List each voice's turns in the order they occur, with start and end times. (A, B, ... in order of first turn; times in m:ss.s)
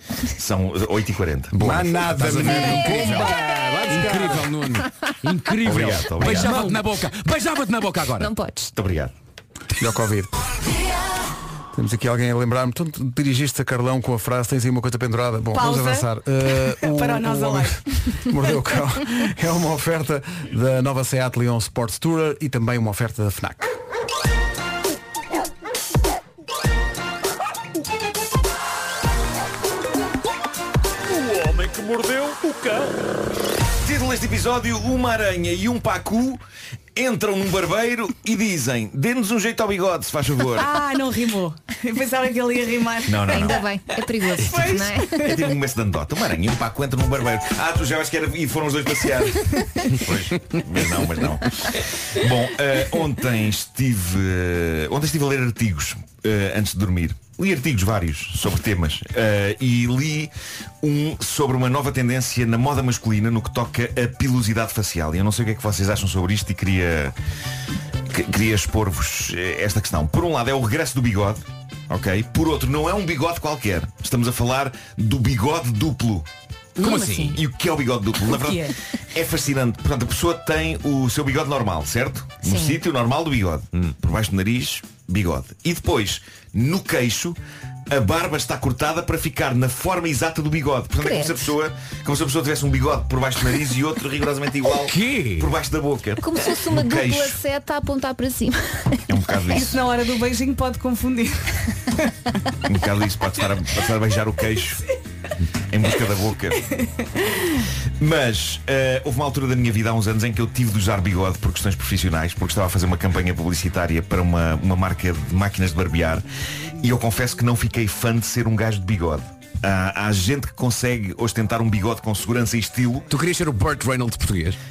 0:00.4-0:01.8 A
0:01.5-0:08.3 B
0:01.6-0:04.5 C
0:05.6-0:06.7 A
0:06.4-0:06.8 C
0:08.2-0:08.7 D
0:08.7-0:09.1 A
0:09.8-0:10.3 C
0:11.7-0:23.8 C
0:15.5-0:16.1 E
0:16.7-0:17.8 E
0:31.4-0:32.5 A
0:33.8-0:36.4 A
0:36.9-0:40.7 A
0:40.6-0:45.3 E
0:43.0-0:43.6 A
0:43.3-0:45.3 D
0:45.1-1:07.1 A
1:08.1-1:16.3 A
1:16.8-1:17.4 E
1:16.8-1:17.4 B
1:17.3-1:27.4 A
1:18.3-1:18.7 E
1:22.4-1:22.8 D
1:27.9-1:37.4 A
1:31.0-1:31.5 D
1:34.9-1:35.5 B
1:36.2-1:39.0 D
1:39.1-1:39.8 A
1:39.5-1:41.7 E
1:42.6-1:44.8 A
1:45.7-1:46.7 A
1:48.0-1:56.2 A
1:56.8-2:03.1 A
2:03.1-2:04.6 B